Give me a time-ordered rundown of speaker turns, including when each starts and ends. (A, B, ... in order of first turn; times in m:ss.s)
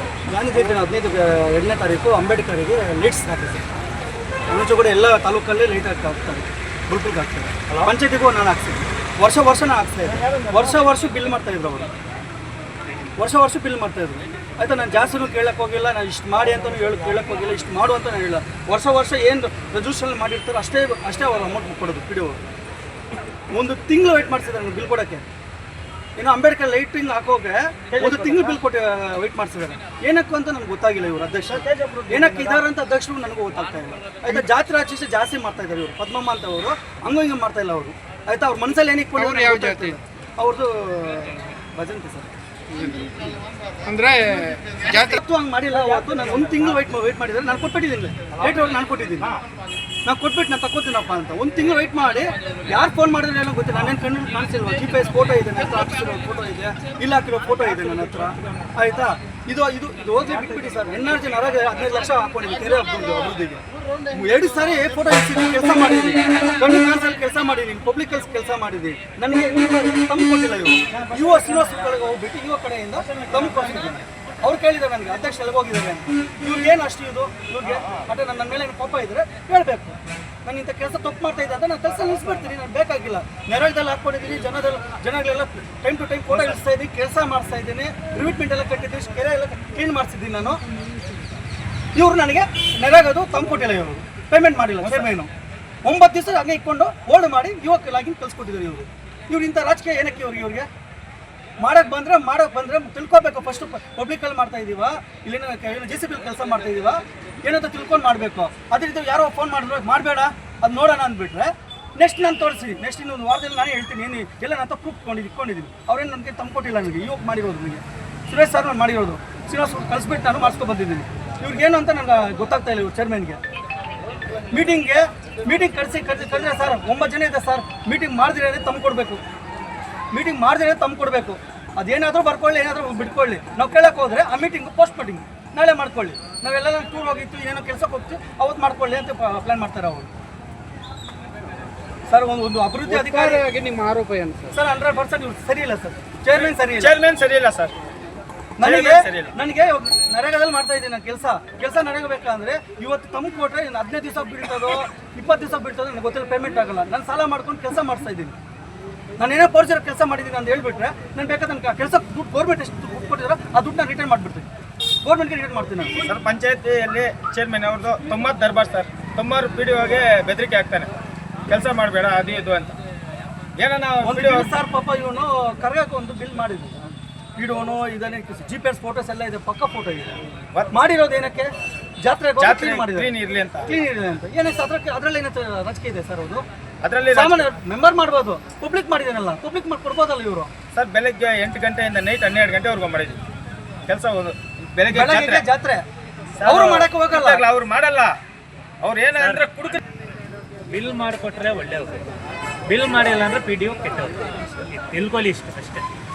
0:00.3-0:03.7 A
0:04.5-0:11.9 A
0:10.1-0:10.8 B
0:13.2-0:22.4 A
0:23.5-0:25.3 A
0:26.2-0:42.3 A
0:27.9-0:28.6 B
0:31.5-0:32.6 B
0:39.2-0:40.0 C
0:42.7-0:45.2 C
0:44.9-0:49.4 A
0:50.1-1:30.6 A
1:10.9-1:11.8 B
1:13.0-1:13.9 B
1:32.0-1:35.3 A
1:35.8-1:40.7 A
1:41.6-2:03.4 A
2:04.5-2:09.2 A
2:10.1-2:20.1 A
2:22.1-2:23.5 A
2:22.9-2:24.5 C
2:24.5-2:27.0 A
2:26.4-2:27.7 B
2:28.6-2:38.4 A
2:28.6-2:29.3 B
2:39.2-2:44.5 A
2:45.0-2:46.0 A
2:46.0-2:50.9 B
2:51.5-2:52.8 B
2:53.6-2:54.6 B
2:54.0-3:00.1 A
3:00.7-3:01.5 A
3:02.0-3:03.1 A
3:02.4-3:03.7 B
3:03.7-3:06.4 A
3:06.8-3:07.5 B
3:07.1-3:10.5 A
3:10.7-3:13.2 B
3:13.9-3:15.5 B
3:14.9-3:15.8 A
3:16.4-3:18.2 B
3:16.4-3:17.4 A
3:18.8-3:19.8 B
3:19.2-3:19.4 D
3:20.7-3:22.1 D
3:22.7-3:25.8 D